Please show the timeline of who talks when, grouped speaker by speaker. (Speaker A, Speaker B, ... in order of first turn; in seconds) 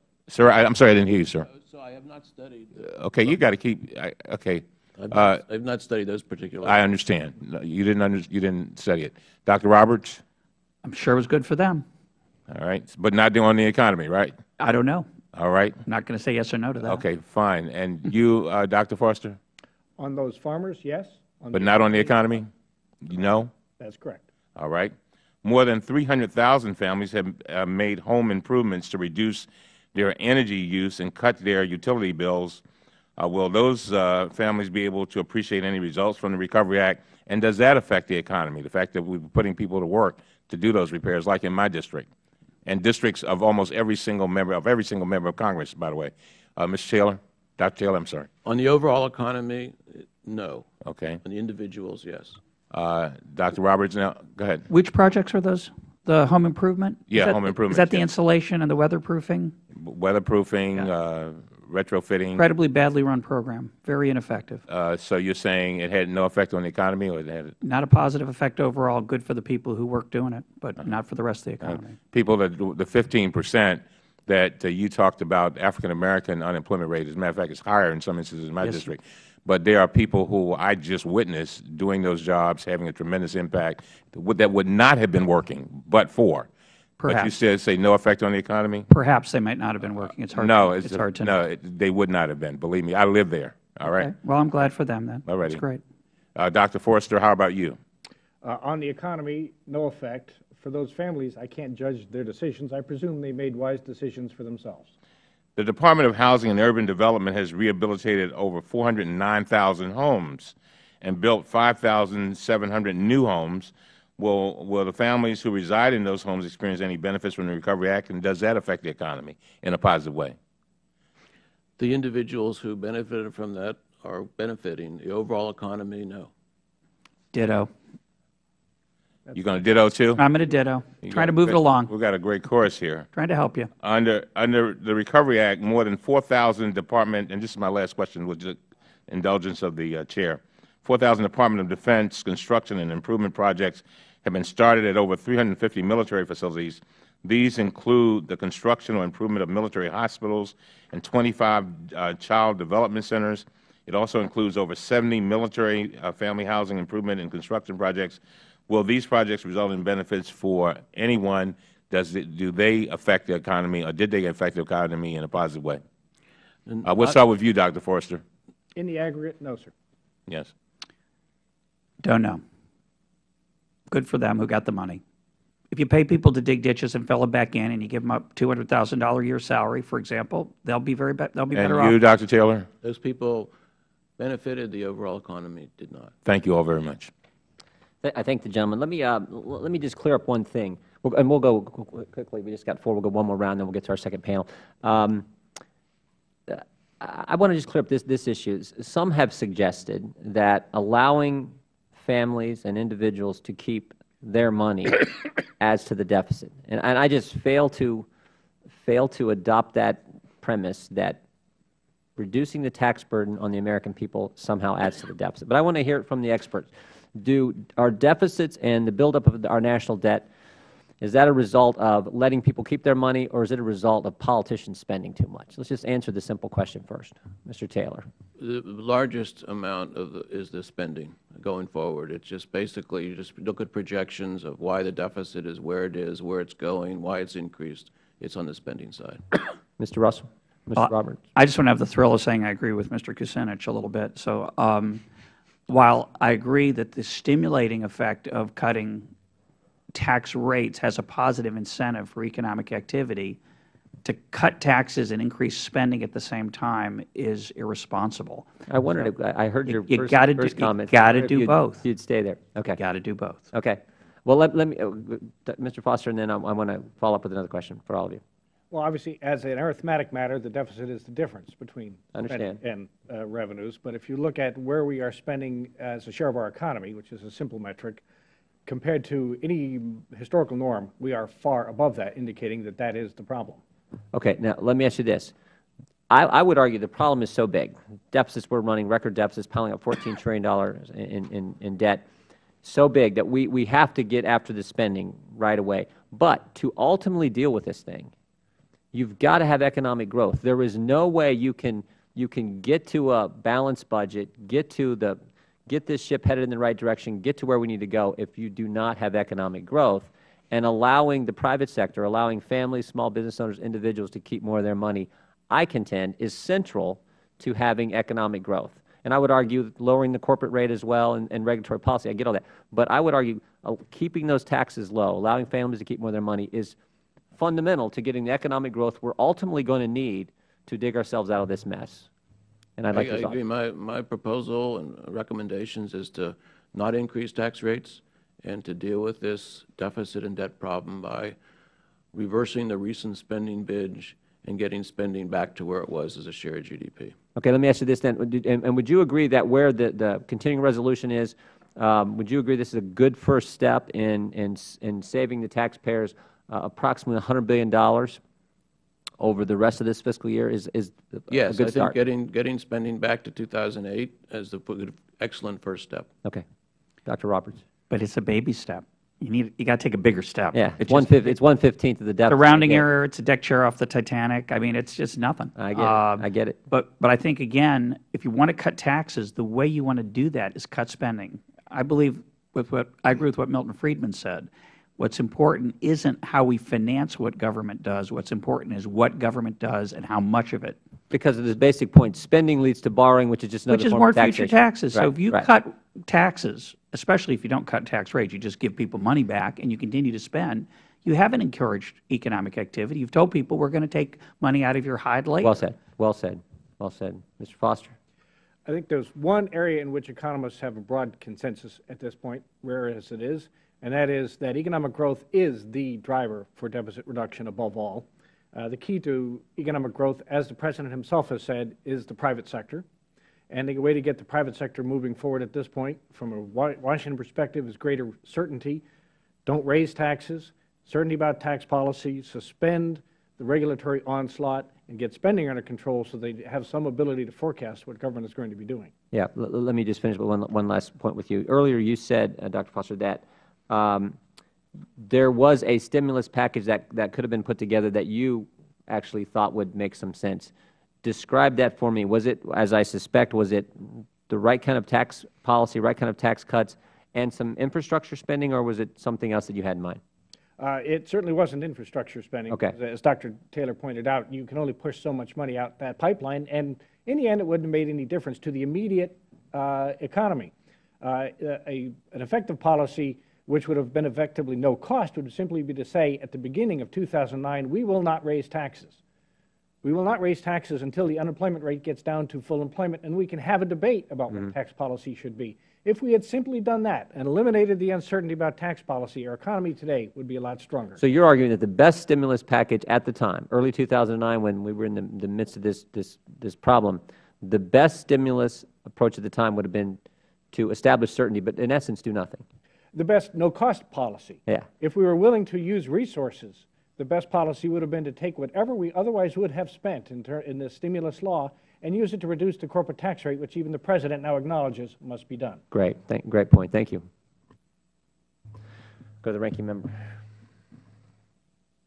Speaker A: 0.3-1.5, 2.8-5.4, 6.6-10.2, 12.5-14.4, 15.3-15.8, 16.8-19.4, 21.5-22.5, 23.0-23.5, 24.6-32.6, 33.2-42.1, 42.6-48.3, 50.8-51.2, 52.7-54.7, 57.1-58.0, 59.7-62.5, 64.7-67.5, 71.6-86.5, 87.1-88.9, 90.3-94.1, 95.3-95.6, 96.3-97.8, 105.6-120.4, 129.3-130.2, 131.0-133.1, 133.8-165.8, 166.8-168.2, 170.3-170.5, 181.5-182.7, 186.2-187.1
Speaker B: 1.5-3.4, 5.0-6.9, 48.5-50.7, 51.2-52.4, 121.8-126.3, 166.7-167.2, 182.8-183.5, 184.2-186.1, 228.4-239.2, 332.9-341.4, 342.1-347.1, 361.3-366.1
Speaker C: 10.8-11.8, 14.6-15.1, 15.9-17.0, 54.7-59.6, 62.4-64.6, 67.6-72.0, 78.6-78.9, 87.0-87.3, 88.9-91.3, 93.8-95.8, 127.3-127.7, 130.2-131.9, 133.1-133.7, 172.0-172.4, 173.9-175.0, 175.7-182.0, 240.8-245.1, 245.7-249.1, 249.9-253.4, 254.0-259.1, 259.7-261.9, 262.8-263.5, 367.9-371.4, 372.3-390.8, 393.7-405.6
Speaker D: 20.0-22.3, 23.8-24.2, 98.4-104.9, 168.8-169.7, 268.7-278.0, 278.7-283.6, 408.7-422.9, 423.5-428.8, 429.5-438.9, 460.6-479.0, 479.8-491.0, 502.9-515.6
Speaker E: 188.0-195.3, 196.5-208.1, 208.8-211.2, 212.2-220.3, 221.0-228.1, 239.8-241.2, 258.7-262.8, 263.5-268.2, 272.1-272.6, 284.1-285.3, 286.1-292.1, 292.6-298.1, 298.9-326.8, 327.4-332.1, 332.8-333.4, 347.4-358.2, 359.2-361.9, 367.1-367.6, 370.5-372.9, 375.6-376.6, 391.1-395.5, 405.4-408.0, 439.1-444.2, 445.0-450.5, 451.0-460.0, 462.5-462.8, 491.0-500.0, 500.5-502.4, 515.7-517.1, 519.2-520.1